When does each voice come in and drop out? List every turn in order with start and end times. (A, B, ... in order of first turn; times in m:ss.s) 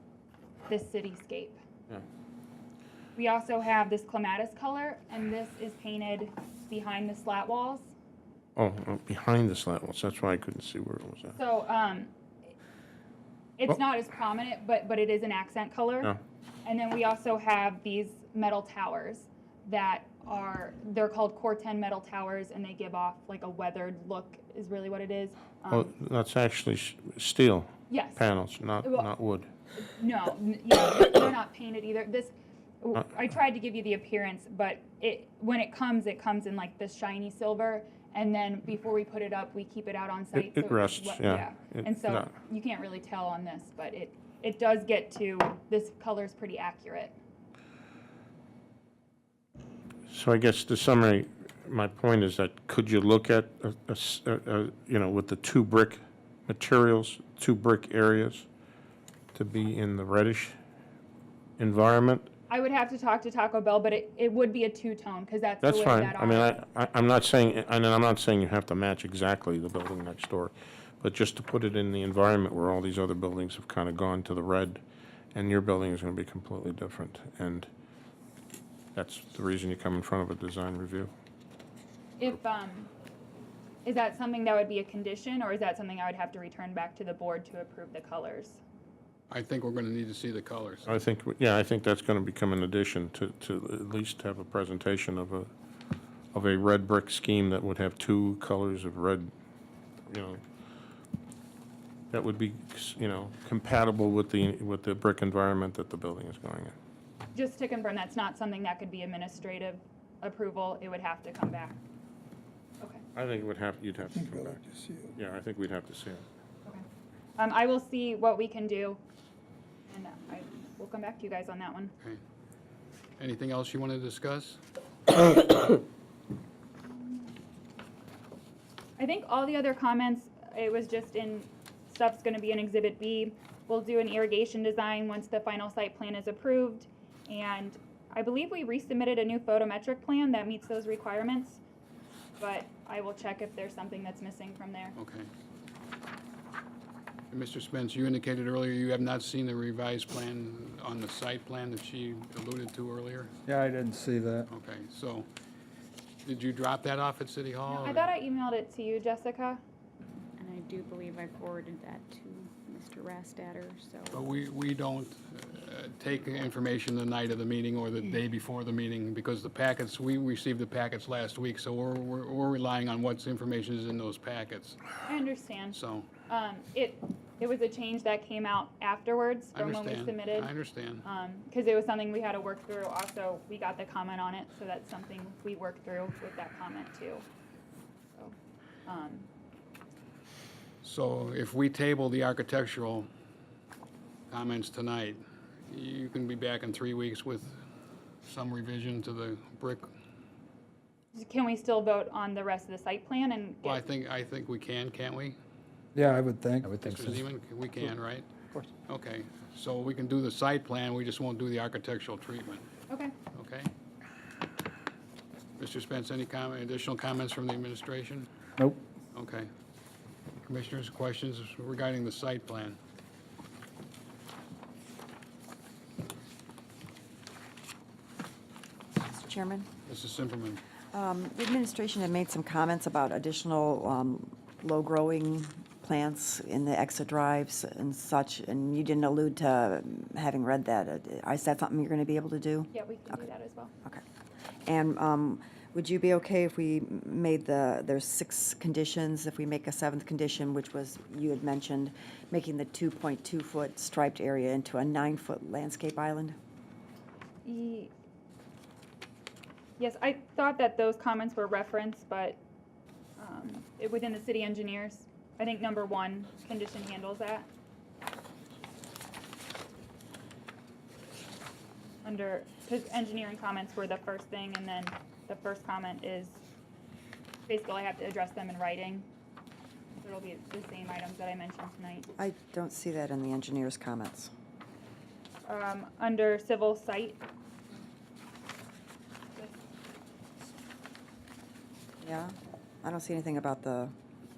0:00.7-0:01.6 A
0:03.2-0:07.9 A
0:08.6-0:11.3 B
0:11.4-0:12.1 A
0:13.6-0:16.1 A
0:16.6-0:25.9 A
0:25.7-0:29.5 B
0:27.9-0:28.3 A
0:28.8-0:29.1 A
0:29.8-0:47.1 A
0:40.3-0:42.3 B
0:50.1-0:58.5 B
0:59.3-1:00.6 B
1:01.6-1:02.3 B
1:02.5-1:06.6 A
1:05.6-1:14.8 B
1:15.3-1:17.7 B
1:18.9-1:21.1 B
1:22.2-1:22.9 A
1:23.8-1:28.6 A
1:29.3-1:30.9 C
1:30.8-1:35.5 B
1:36.3-1:39.3 B
1:40.1-1:40.4 B
1:42.1-1:46.7 B
1:47.3-1:51.8 A
1:53.1-1:56.2 B
1:57.4-1:59.0 A
1:59.9-2:01.9 A
2:03.2-2:04.6 C
2:09.0-2:21.6 A
2:22.4-2:25.0 A
2:25.0-2:25.3 C
2:27.3-2:33.3 C
2:33.5-2:34.4 D
2:34.5-2:35.3 C
2:36.2-2:38.1 C
2:37.7-2:39.6 A
2:40.4-2:44.3 E
2:44.1-2:54.8 C
2:55.0-3:07.2 A
2:55.7-2:56.1 C
2:59.5-3:01.0 C
3:08.8-3:09.3 A
3:10.8-3:13.1 C
3:14.3-3:17.6 C
3:18.2-3:19.9 C
3:21.1-3:23.8 A
3:23.6-3:25.4 C
3:26.0-3:27.0 D
3:26.8-3:28.3 C
3:28.8-3:32.6 C
3:32.9-3:33.1 A
3:33.3-3:33.7 C
3:35.6-3:38.3 C
3:39.1-3:39.5 C
3:40.4-3:42.8 C
3:49.0-3:49.7 F
3:49.9-3:50.6 C
3:50.9-4:02.7 F
4:02.7-4:03.7 A
4:04.6-4:16.4 F
4:17.4-4:17.9 A
4:19.8-4:22.4 A
4:23.2-4:27.5 A
4:32.0-4:36.4 A
4:37.5-4:39.0 A
4:40.0-4:42.1 A
4:42.2-4:44.3 F
4:45.4-4:47.2 A
4:52.0-4:53.9 F